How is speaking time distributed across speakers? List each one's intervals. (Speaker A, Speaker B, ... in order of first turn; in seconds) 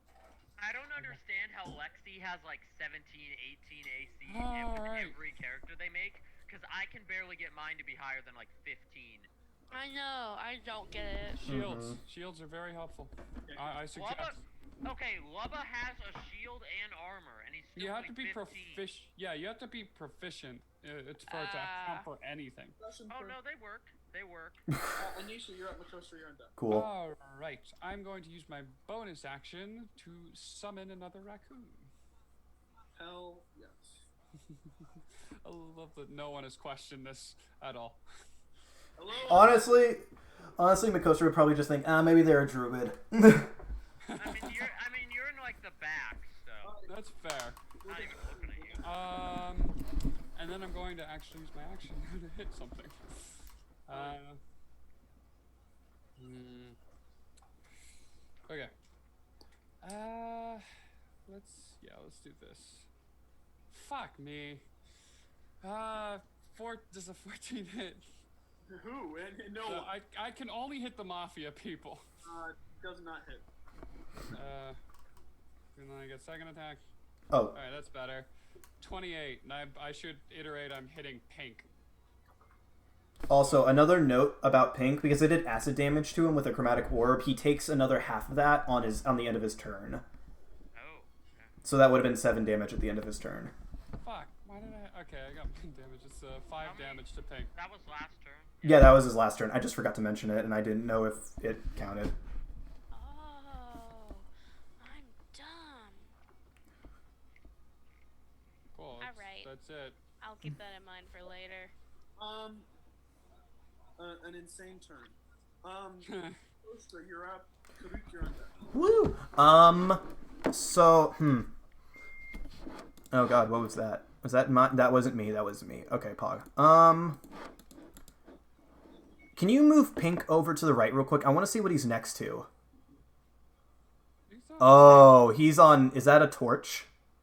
Speaker A: 0.6-9.3, 13.9-18.9, 23.1-24.6, 44.2-46.8, 47.9-48.9, 90.7-91.5, 96.5-99.0
Speaker B: 4.3-5.2, 11.3-14.5, 17.8-22.8, 26.7-31.9, 35.4-38.0, 44.1-44.6, 46.9-47.8, 48.8-49.8, 50.4-54.4, 56.2-56.8, 58.5-58.7, 59.8-60.6, 61.3-62.9, 63.7-64.7, 65.6-68.0, 69.7-72.0, 74.3-74.8, 75.8-76.8, 77.5-81.7, 83.3-83.7, 94.0-97.5, 108.7-110.1, 116.1-116.3, 134.3-135.2
Speaker C: 9.7-11.4, 21.3-22.1, 102.9-104.3, 104.8-106.1, 109.0-109.5, 110.1-111.7
Speaker D: 11.4-12.0, 26.6-26.9, 39.3-43.5, 77.3-77.6, 83.3-90.0, 91.6-93.5, 98.6-102.1, 118.7-121.5, 123.1-127.2, 129.4-132.5, 134.6-136.9
Speaker E: 22.8-23.4, 25.0-26.5, 33.0-34.1, 39.0-39.7, 46.6-46.9, 47.8-49.1, 68.7-69.9, 72.2-73.5, 112.2-112.7, 114.0-118.7